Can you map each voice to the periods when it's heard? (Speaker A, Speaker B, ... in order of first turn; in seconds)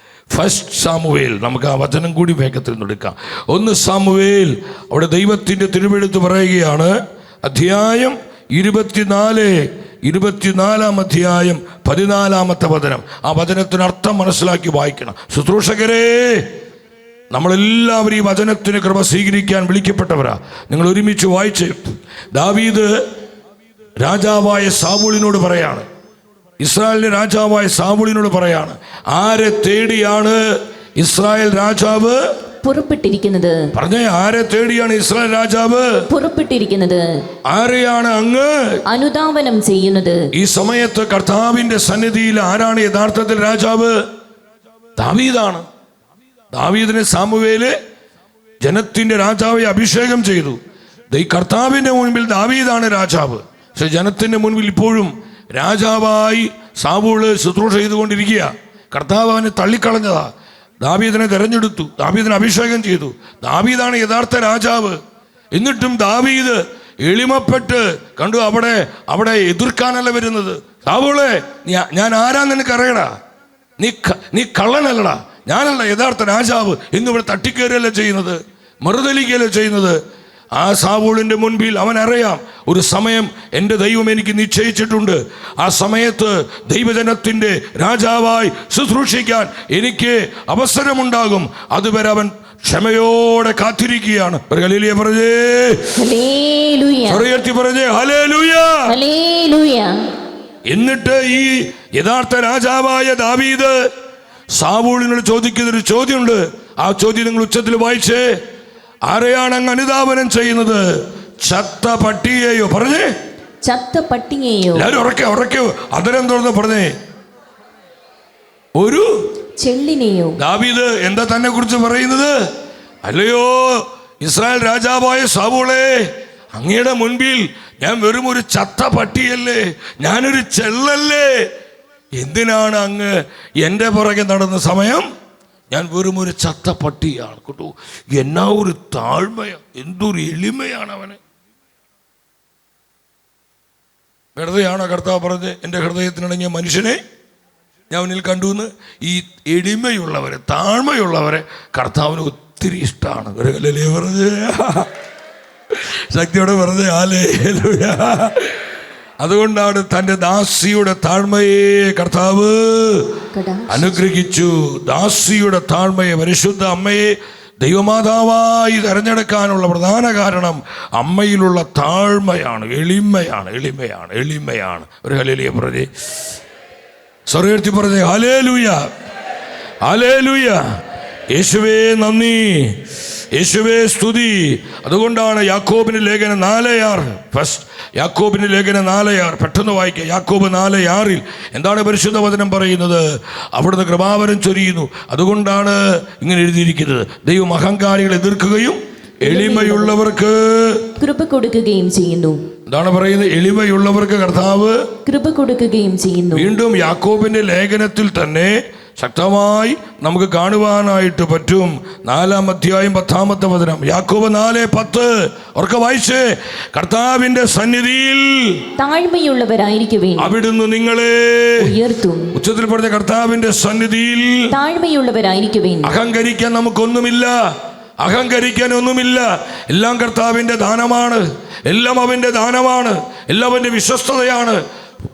Speaker A: 0.3-16.5, 17.3-22.9, 24.0-25.9, 26.6-32.2, 33.7-36.1, 37.5-38.8, 40.3-44.0, 45.0-45.7, 46.5-47.7, 48.6-50.6, 51.1-60.3, 60.8-65.0, 65.5-73.1, 73.8-80.0, 80.6-96.0, 97.1-98.9, 100.7-103.8, 104.5-108.3, 109.1-110.9, 111.4-113.1, 114.8-116.9, 118.8-119.1, 120.4-122.3, 123.0-131.5, 132.2-135.1, 135.7-141.2, 144.4-147.0, 147.9-154.9, 155.7-158.6, 159.2-163.1, 163.7-175.9, 177.3-178.9, 179.8-180.6, 181.3-200.9, 202.7-204.8, 206.3-218.7, 220.2-221.7, 222.3-224.5, 225.8-227.5, 228.0-234.6
Speaker B: 32.6-33.7, 36.1-37.1, 38.9-40.3, 96.0-97.2, 98.9-100.0, 113.6-114.9, 119.6-120.4, 163.3-164.0, 199.2-199.9, 201.0-202.4, 205.1-206.5, 218.8-220.3, 221.6-222.3, 224.5-225.9